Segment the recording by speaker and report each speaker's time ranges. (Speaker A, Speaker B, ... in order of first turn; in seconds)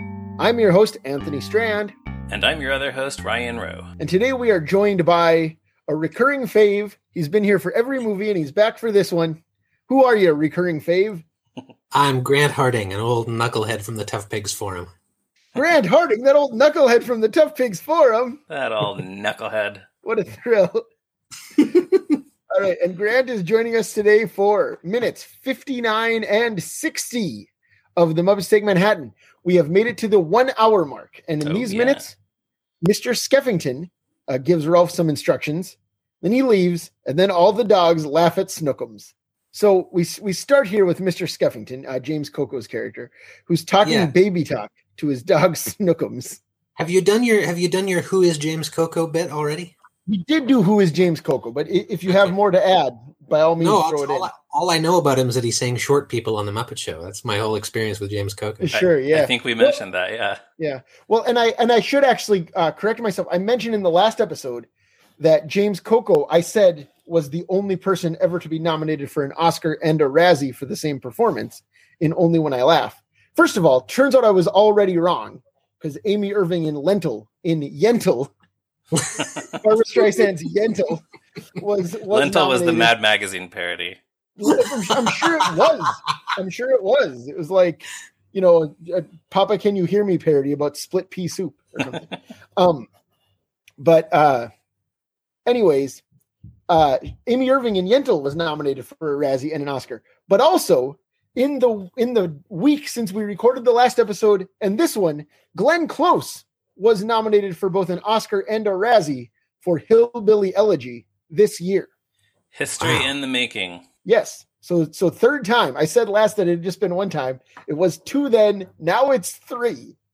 Speaker A: 0.4-1.9, 4.0-11.2, 15.6-18.4, 20.0-20.8, 22.5-32.1, 32.8-46.4, 50.1-54.3, 58.6-59.8, 60.6-64.7, 65.2-78.3, 79.5-81.0, 81.6-82.9, 84.4-92.1, 92.6-92.9, 93.8-94.5, 95.5-96.0, 96.7-111.9, 114.0-120.0
Speaker B: 2.3-3.9, 18.5-19.8, 31.4-32.0, 58.7-60.4, 82.1-84.0, 112.5-113.8
Speaker C: 11.9-14.9, 43.8-44.1, 46.8-49.7, 53.6-58.7, 112.8-113.1